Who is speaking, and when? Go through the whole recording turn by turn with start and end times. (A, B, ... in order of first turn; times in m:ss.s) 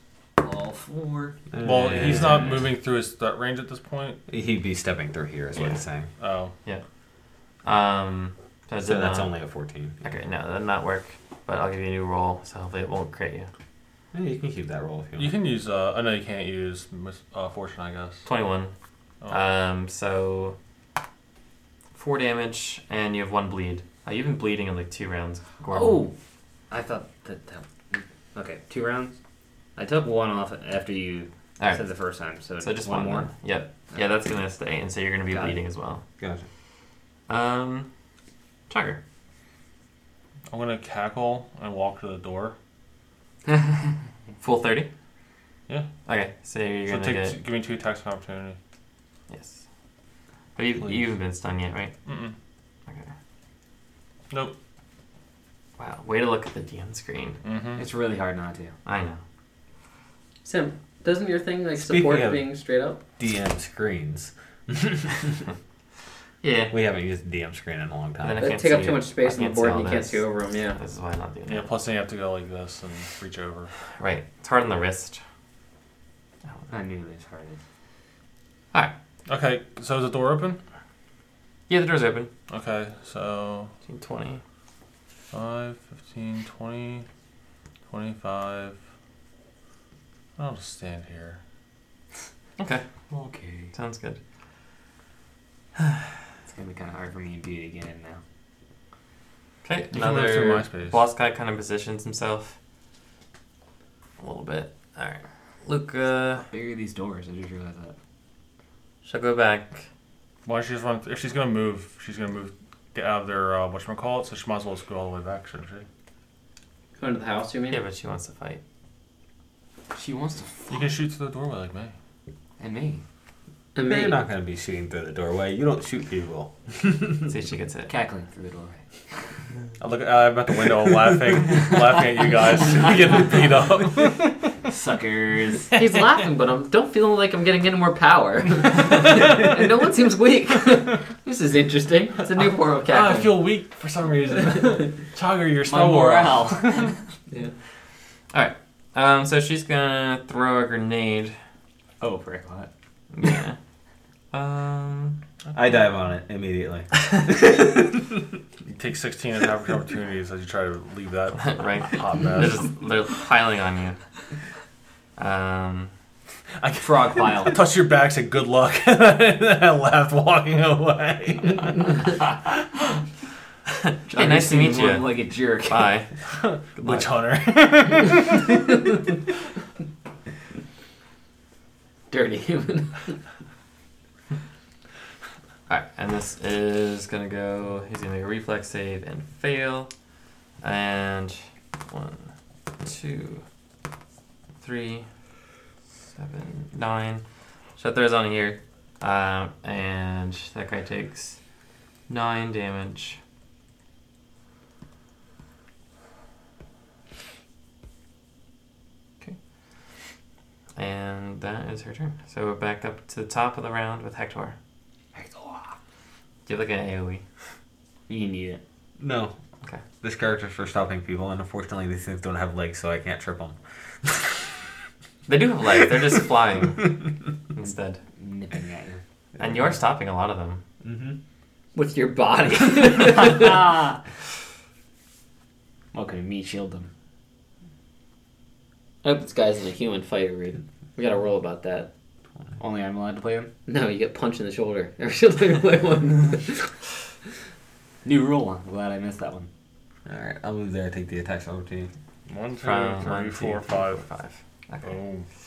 0:00.4-0:01.5 A
0:01.5-0:02.5 B
0:01.6-0:04.2 C
0:02.1-0:02.6 D
0:04.3-0:06.1 B
0:05.6-0:05.8 D
0:06.2-0:06.5 C
0:07.6-0:09.3 D
0:08.8-0:10.0 B
0:10.0-0:13.5 D
0:14.1-0:15.3 B
0:15.2-0:18.3 C
0:18.2-0:18.7 D
0:19.3-0:20.6 D
0:21.9-0:26.1 D
0:25.7-0:26.1 A
0:26.7-0:29.2 A
0:29.8-0:33.2 A
0:32.6-0:36.0 D
0:32.9-0:33.2 B
0:35.3-0:35.6 A
0:36.2-0:36.5 B
0:37.3-0:37.9 D
0:38.7-0:39.0 D
0:40.5-0:42.6 C
0:43.5-0:44.0 A
0:44.4-0:44.9 D
0:46.1-0:47.4 D
0:46.9-0:48.6 C
0:49.3-0:49.6 D
0:50.6-0:51.9 D
0:52.0-0:52.4 C
0:55.8-0:57.4 D
0:57.4-0:57.8 C
0:57.8-0:58.7 A
0:58.8-0:59.2 D
1:00.4-1:03.0 E
1:01.8-1:02.4 B
1:03.2-1:05.4 B
1:06.4-1:06.7 D
1:06.7-1:08.6 B
1:08.2-1:11.7 D
1:08.4-1:10.8 E
1:11.5-1:13.7 C
1:14.0-1:15.2 D
1:16.5-1:16.7 D
1:16.7-1:17.6 A
1:19.3-1:20.6 C
1:21.7-1:22.3 D
1:22.5-1:23.7 C
1:23.9-1:24.4 D
1:25.3-1:27.1 C
1:27.9-1:28.8 C
1:30.4-1:31.4 C
1:32.6-1:32.8 D
1:33.1-1:33.7 A
1:33.7-1:34.2 D
1:36.4-1:38.2 A
1:39.6-1:42.6 D
1:39.9-1:41.0 C
1:44.2-1:46.5 D
1:46.5-1:48.0 A
1:49.0-1:49.9 D
1:50.4-1:55.9 C
1:57.0-1:57.8 E
1:57.7-1:58.6 D
1:59.9-2:00.8 A
2:00.7-2:01.9 C
2:02.6-2:03.0 A
2:03.8-2:04.2 E
2:03.8-2:07.3 B
2:07.3-2:07.9 D
2:07.9-2:09.3 A
2:09.8-2:14.5 C
2:14.6-2:15.8 A
2:15.8-2:23.5 E
2:22.8-2:26.9 C
2:25.6-2:27.1 A
2:28.3-2:31.4 D
2:32.0-2:32.7 A
2:33.1-2:33.6 D
2:34.3-2:35.2 D
2:35.5-2:38.2 B
2:38.7-2:42.8 C
2:41.4-2:44.0 D
2:45.2-2:45.9 D
2:46.6-2:52.5 C
2:46.8-2:47.6 A
2:53.8-2:56.1 D
2:54.1-2:55.9 A
2:56.2-2:58.9 C
2:56.7-2:57.2 D
3:02.1-3:03.2 E
3:05.7-3:09.9 D
3:10.6-3:13.4 D
3:14.6-3:15.1 D
3:16.2-3:17.2 D
3:17.8-3:21.4 D
3:22.1-3:23.2 D
3:30.8-3:34.6 D
3:35.2-3:35.8 A
3:36.5-3:37.2 D
3:38.1-3:38.6 A
3:39.0-3:39.4 B
3:40.0-3:44.5 B
3:45.3-3:47.0 D
3:47.5-3:48.0 D
3:47.7-3:49.0 A
3:49.4-3:49.7 B
3:49.4-3:50.6 D
3:50.8-3:51.2 B
3:51.8-3:53.8 E
3:53.2-3:54.0 A
3:55.9-3:56.9 A
3:59.0-4:01.9 E
4:02.6-4:03.5 A
4:03.7-4:06.8 E
4:08.0-4:09.5 A
4:10.1-4:11.9 B
4:12.3-4:14.0 C
4:12.6-4:15.0 D
4:14.8-4:15.3 C